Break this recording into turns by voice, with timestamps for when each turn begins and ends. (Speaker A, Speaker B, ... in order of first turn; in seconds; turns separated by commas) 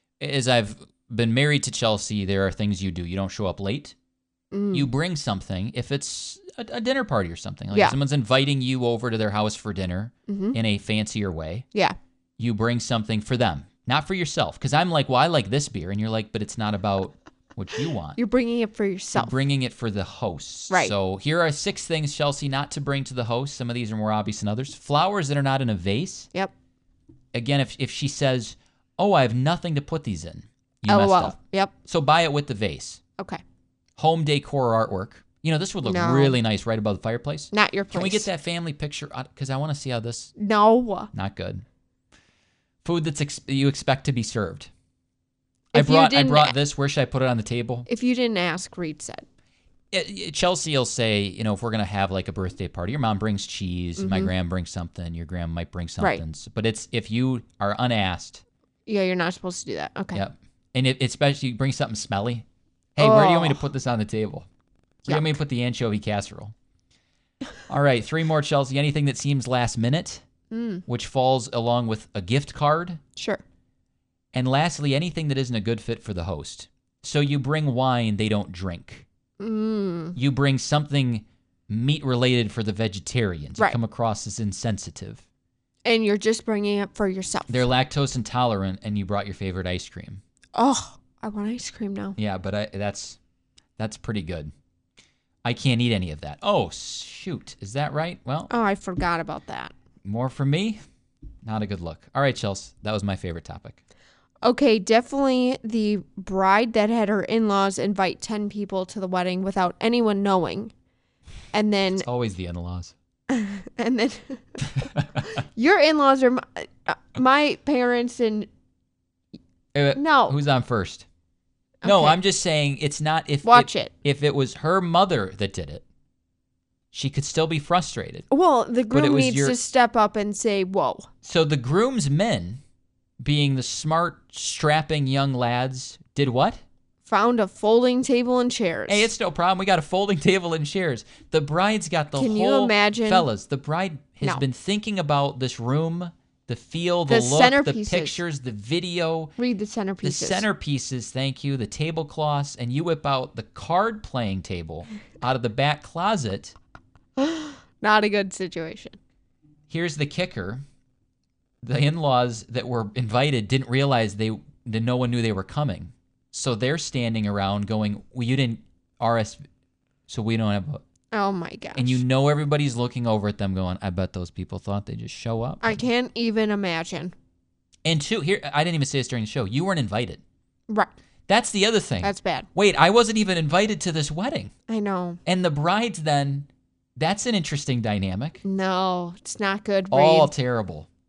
Speaker A: 0.2-3.9, Speaker B: 4.5-4.9, Speaker A: 4.7-11.7, Speaker B: 10.3-10.6, Speaker A: 12.4-18.2, Speaker B: 18.1-19.4, Speaker A: 19.1-26.3, Speaker A: 27.3-33.0, Speaker B: 30.9-31.7, Speaker A: 34.0-40.3, Speaker B: 35.8-36.4, Speaker B: 37.5-38.3, Speaker B: 40.4-41.1, Speaker A: 41.1-41.6, Speaker A: 42.8-44.7, Speaker A: 45.7-47.9, Speaker B: 45.7-46.6, Speaker B: 47.9-49.2, Speaker A: 49.9-58.4, Speaker B: 54.0-54.3, Speaker B: 58.9-60.2, Speaker A: 60.1-64.5, Speaker B: 63.0-63.6, Speaker A: 65.0-66.5, Speaker B: 65.1-65.4, Speaker A: 67.7-70.2, Speaker B: 70.5-70.8, Speaker A: 70.8-73.0, Speaker B: 73.2-73.4, Speaker A: 74.3-79.0, Speaker B: 79.4-80.2, Speaker A: 80.2-85.2, Speaker B: 85.8-87.7, Speaker A: 87.5-90.2, Speaker B: 90.5-92.2, Speaker A: 92.2-93.2, Speaker A: 93.8-94.5, Speaker A: 95.4-98.5, Speaker B: 98.5-99.7, Speaker A: 100.0-100.8, Speaker A: 101.4-103.8, Speaker B: 104.4-110.7, Speaker B: 111.5-112.1, Speaker A: 111.9-112.9, Speaker B: 113.3-114.6, Speaker B: 115.4-118.5, Speaker A: 119.7-121.0, Speaker B: 120.0-120.4, Speaker B: 121.8-122.2, Speaker A: 121.8-125.8, Speaker B: 123.4-123.9, Speaker A: 126.9-128.3, Speaker B: 128.3-131.1, Speaker A: 128.9-129.6, Speaker A: 131.2-132.6, Speaker A: 133.2-136.6, Speaker B: 137.1-139.1, Speaker A: 138.9-149.3, Speaker B: 142.1-143.3, Speaker B: 147.1-148.2, Speaker B: 149.4-150.4, Speaker A: 150.0-156.5, Speaker B: 157.2-159.0, Speaker A: 159.7-160.6, Speaker A: 161.6-169.4, Speaker A: 170.1-170.8, Speaker B: 171.1-172.0, Speaker A: 171.8-175.8, Speaker B: 175.6-177.1, Speaker A: 177.8-180.2, Speaker A: 181.3-184.5, Speaker B: 182.0-182.5, Speaker B: 184.7-185.2, Speaker A: 185.2-188.4, Speaker B: 188.4-190.3, Speaker A: 189.9-190.9